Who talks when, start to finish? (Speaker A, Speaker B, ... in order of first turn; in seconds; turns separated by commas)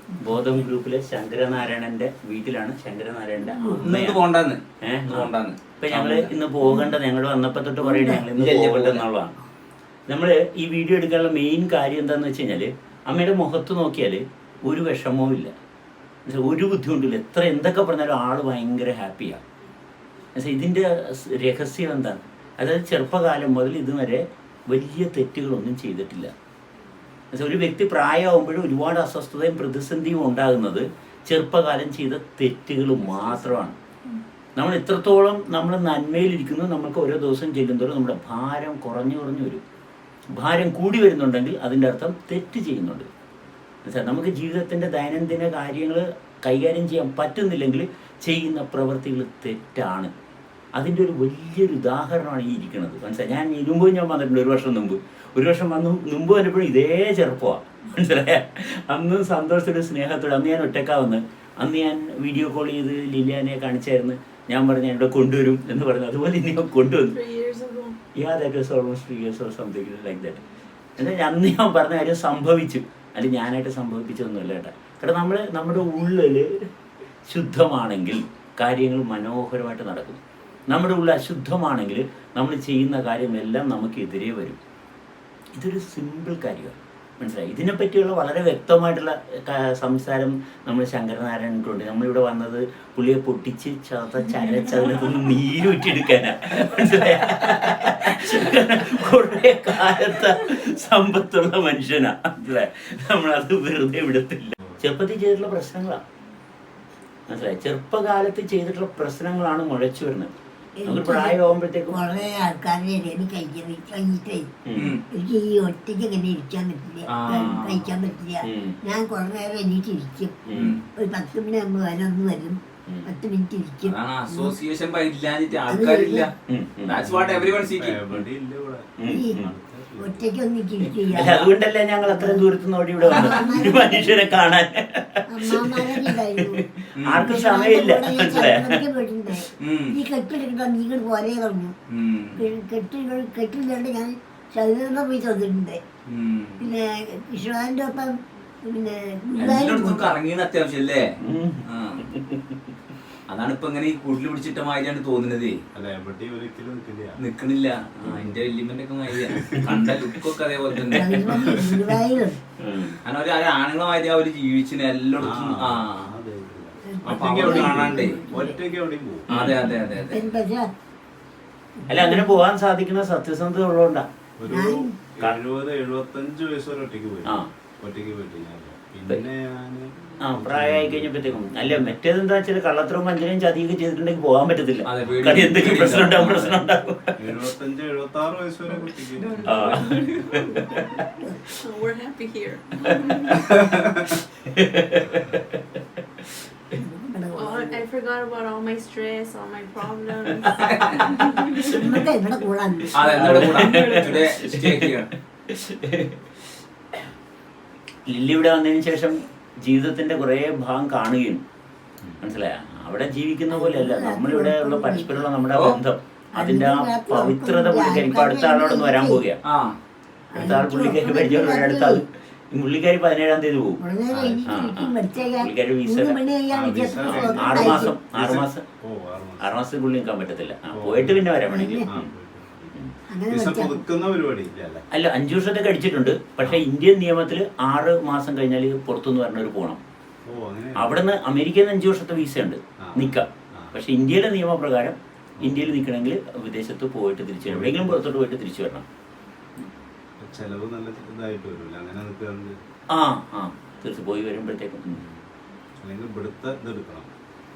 Speaker A: 0.2-4.2, Speaker B: 3.8-6.3, Speaker A: 4.8-9.3, Speaker B: 8.1-9.0, Speaker A: 10.1-15.5, Speaker A: 16.2-19.4, Speaker A: 20.3-26.3, Speaker A: 27.3-33.8, Speaker A: 34.6-39.6, Speaker A: 40.3-43.1, Speaker A: 43.8-50.1, Speaker A: 50.8-67.2, Speaker C: 67.1-68.0, Speaker A: 68.1-70.4, Speaker A: 71.0-76.7, Speaker A: 77.2-84.6, Speaker A: 85.5-106.0, Speaker A: 107.3-110.3, Speaker D: 110.8-120.4, Speaker A: 110.8-112.0, Speaker A: 114.6-114.9, Speaker B: 114.8-115.0, Speaker B: 117.1-118.0, Speaker A: 117.3-117.6, Speaker A: 118.4-118.8, Speaker A: 120.5-120.8, Speaker B: 120.5-120.8, Speaker D: 121.0-124.5, Speaker B: 123.8-126.3, Speaker D: 125.7-126.3, Speaker A: 126.5-127.0, Speaker B: 126.8-128.0, Speaker E: 127.0-130.2, Speaker A: 129.0-129.5, Speaker D: 129.1-129.4, Speaker D: 130.0-132.5, Speaker A: 131.0-138.8, Speaker D: 133.0-134.3, Speaker D: 135.3-141.8, Speaker B: 137.0-137.3, Speaker B: 139.6-140.0, Speaker B: 141.9-142.5, Speaker D: 142.3-145.8, Speaker B: 146.1-146.7, Speaker D: 146.6-150.2, Speaker B: 149.4-151.1, Speaker A: 151.2-152.5, Speaker B: 151.7-152.1, Speaker B: 153.3-155.6, Speaker E: 155.7-157.2, Speaker B: 157.2-161.4, Speaker E: 159.3-159.7, Speaker D: 160.9-162.4, Speaker E: 161.4-161.7, Speaker A: 162.6-163.0, Speaker B: 163.0-166.1, Speaker E: 165.2-169.4, Speaker D: 166.9-168.6, Speaker B: 167.0-168.2, Speaker B: 169.3-170.3, Speaker A: 169.3-169.8, Speaker D: 170.1-170.7, Speaker D: 171.8-172.4, Speaker A: 171.9-174.1, Speaker E: 174.4-182.0, Speaker D: 174.5-175.0, Speaker A: 180.2-187.4, Speaker B: 184.8-186.6, Speaker E: 187.2-190.2, Speaker C: 189.2-190.5, Speaker A: 189.4-191.0, Speaker C: 191.6-193.6, Speaker E: 193.4-194.2, Speaker A: 194.4-195.6, Speaker E: 195.0-195.4, Speaker D: 196.8-197.8, Speaker C: 197.3-201.9, Speaker B: 200.5-201.2, Speaker D: 201.6-203.4, Speaker B: 202.9-205.1, Speaker C: 203.0-204.3, Speaker A: 203.1-204.9, Speaker A: 205.5-206.2, Speaker A: 208.1-211.4, Speaker A: 212.2-219.4, Speaker D: 213.5-215.2, Speaker B: 215.5-215.8, Speaker D: 216.3-219.2, Speaker B: 219.4-219.8, Speaker A: 220.3-223.8, Speaker D: 220.3-222.0, Speaker D: 223.8-228.0, Speaker E: 224.1-224.5, Speaker A: 224.5-226.2, Speaker E: 226.5-229.5, Speaker A: 227.0-228.6, Speaker A: 229.4-232.1, Speaker E: 230.7-231.3, Speaker D: 231.5-231.9, Speaker E: 231.9-232.8, Speaker D: 233.1-233.8, Speaker E: 233.3-234.8, Speaker A: 234.9-239.8, Speaker E: 240.2-241.0, Speaker A: 240.8-248.8, Speaker E: 242.8-243.8, Speaker E: 245.4-245.8, Speaker E: 247.5-248.1, Speaker E: 250.2-252.6, Speaker A: 252.9-255.0, Speaker E: 255.8-257.1